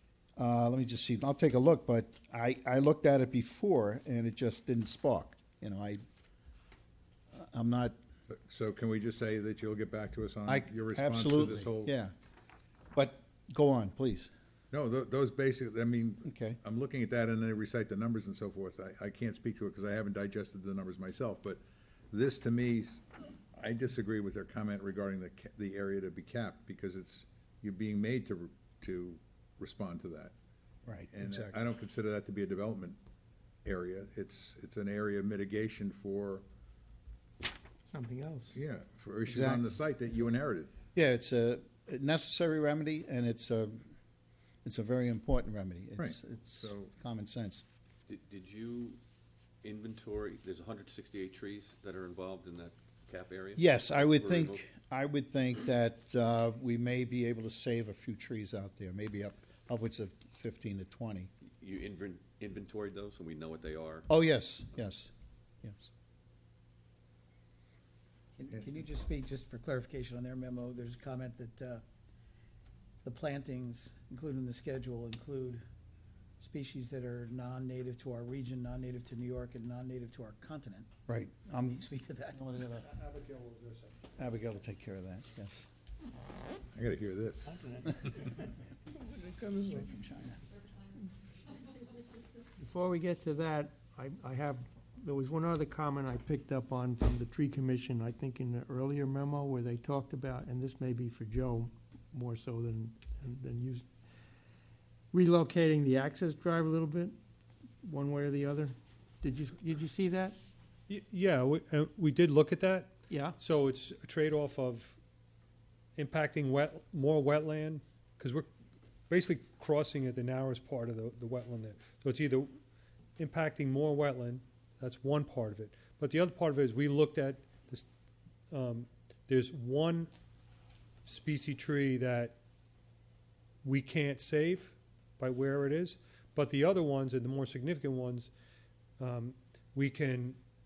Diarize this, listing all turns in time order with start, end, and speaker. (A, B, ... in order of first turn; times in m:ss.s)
0:00.4-0:06.0 A
0:07.3-0:07.9 A
0:08.3-0:11.9 B
0:10.5-0:12.1 A
0:12.9-0:14.3 A
0:14.7-0:30.3 B
0:16.2-0:16.6 A
0:30.8-0:31.6 A
0:31.1-0:33.0 B
0:33.6-0:36.4 B
0:37.9-0:38.5 C
0:38.5-0:40.7 B
0:39.2-0:39.7 A
0:40.9-0:43.8 A
0:44.6-0:47.6 A
0:46.0-0:46.9 B
0:48.1-0:49.0 D
0:49.6-0:54.6 D
0:53.6-1:01.3 A
1:01.6-1:04.1 D
1:04.1-1:05.1 A
1:05.6-1:05.9 A
1:08.4-1:11.8 E
1:13.0-1:15.6 E
1:16.4-1:20.9 E
1:21.1-1:21.8 A
1:21.7-1:22.4 E
1:22.3-1:22.9 A
1:22.8-1:24.0 F
1:24.2-1:25.7 A
1:26.7-1:28.1 B
1:27.7-1:28.2 E
1:29.0-1:29.8 E
1:29.8-1:30.3 A
1:32.6-1:43.8 C
1:45.1-1:47.2 C
1:47.8-1:50.4 C
1:50.9-1:55.0 F
1:53.1-1:53.4 C
1:56.0-1:58.5 F
1:59.1-2:02.5 F
2:03.2-2:07.8 F
2:08.5-2:10.1 F
2:11.0-2:12.4 F
2:13.6-2:18.3 F
2:19.0-2:20.4 F